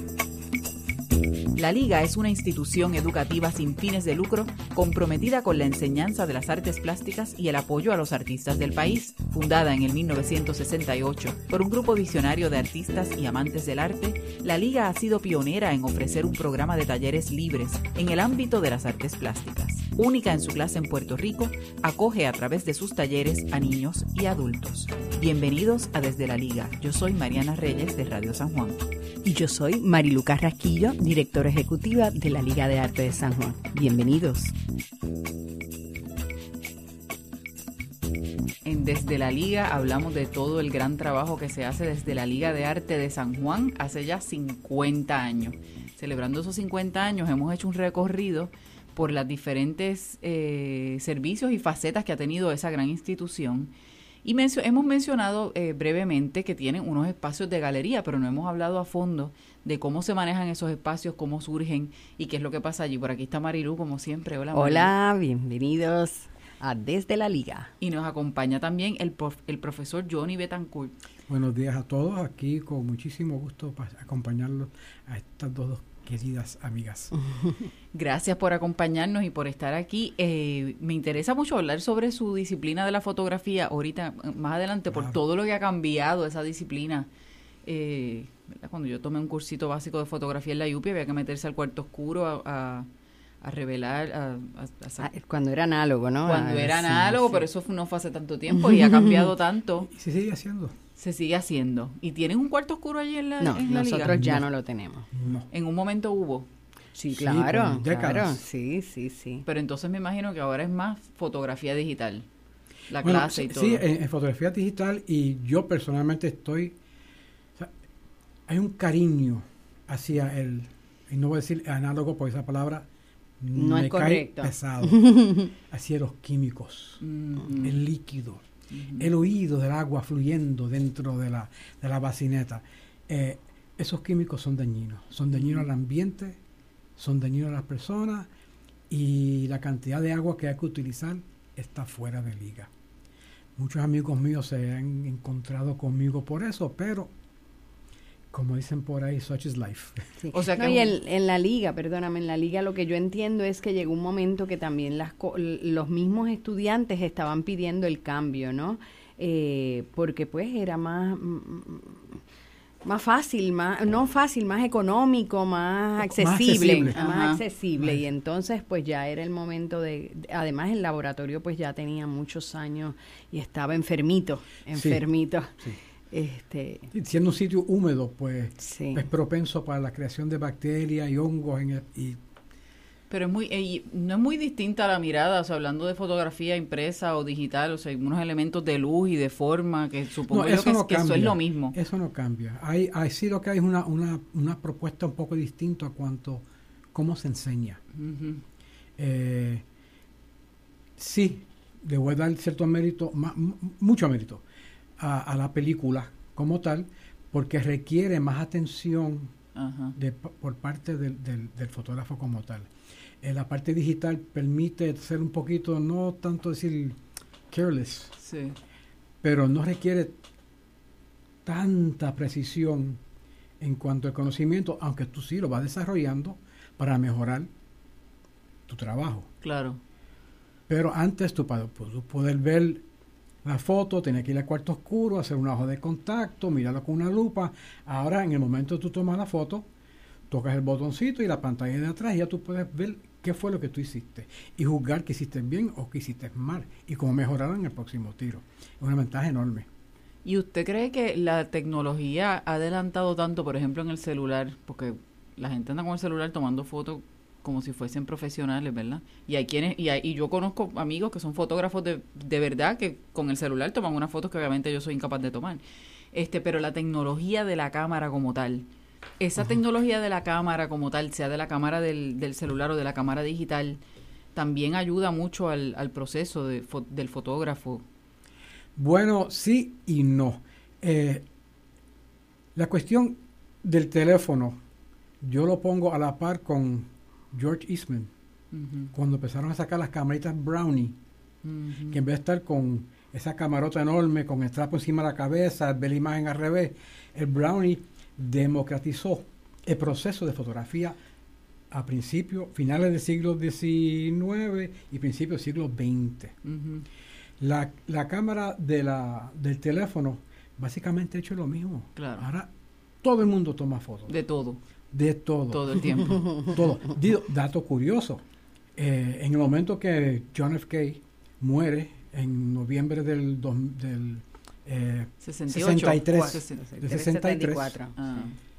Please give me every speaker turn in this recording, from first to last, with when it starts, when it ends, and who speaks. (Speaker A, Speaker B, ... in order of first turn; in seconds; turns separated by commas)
Speaker A: 1.6-28.8, Speaker B: 29.2-34.5, Speaker A: 38.6-53.7, Speaker A: 54.2-64.9, Speaker B: 64.5-67.7, Speaker A: 67.8-70.9, Speaker C: 71.3-77.1, Speaker A: 77.9-87.1, Speaker C: 84.9-85.2, Speaker A: 87.7-92.9, Speaker A: 93.4-95.1, Speaker B: 95.0-97.5, Speaker A: 96.2-99.9, Speaker B: 98.5-99.3, Speaker C: 99.8-100.8, Speaker A: 101.0-104.3, Speaker B: 103.4-105.1, Speaker C: 104.1-104.5, Speaker C: 105.1-105.5, Speaker A: 105.5-106.5, Speaker B: 107.0-109.5, Speaker C: 107.1-108.4, Speaker A: 109.5-112.3, Speaker A: 112.9-113.8, Speaker C: 113.0-116.8, Speaker C: 118.5-122.9, Speaker C: 123.4-128.4, Speaker B: 123.5-125.5, Speaker A: 127.0-127.8, Speaker A: 128.7-129.1, Speaker C: 129.0-136.4, Speaker A: 135.3-135.7, Speaker C: 137.0-138.3, Speaker C: 138.9-142.7, Speaker C: 143.6-147.1, Speaker C: 148.3-150.2, Speaker B: 150.2-162.2, Speaker A: 150.3-150.9, Speaker B: 162.8-176.9, Speaker C: 166.0-167.1, Speaker A: 166.9-167.4, Speaker C: 174.7-175.1, Speaker C: 176.9-182.2, Speaker B: 178.6-179.1, Speaker A: 183.1-191.8, Speaker C: 190.3-197.8, Speaker A: 198.0-198.4, Speaker C: 199.0-199.7, Speaker C: 201.0-204.4, Speaker C: 205.0-209.3, Speaker A: 209.6-209.9, Speaker C: 210.0-212.7, Speaker C: 213.2-217.0, Speaker C: 217.5-218.2, Speaker A: 218.2-218.6, Speaker C: 219.2-220.2, Speaker C: 221.4-223.0, Speaker C: 223.6-227.5, Speaker C: 228.7-229.3, Speaker A: 229.4-229.8, Speaker C: 230.7-232.8, Speaker C: 233.4-239.7, Speaker C: 240.3-249.7, Speaker A: 250.2-268.7, Speaker A: 269.2-273.8, Speaker A: 274.3-277.8, Speaker C: 278.8-281.3, Speaker C: 282.6-284.6, Speaker C: 285.2-288.1, Speaker A: 288.5-288.9, Speaker C: 288.9-291.0, Speaker A: 291.4-292.0, Speaker C: 291.9-301.0, Speaker C: 301.7-306.4, Speaker A: 306.4-306.9, Speaker C: 307.4-312.5, Speaker A: 312.0-312.2, Speaker C: 313.0-314.1, Speaker A: 314.1-314.6, Speaker C: 314.9-318.2, Speaker A: 315.5-316.2, Speaker C: 318.8-327.8, Speaker A: 325.2-326.7, Speaker B: 326.3-328.2, Speaker A: 328.0-328.4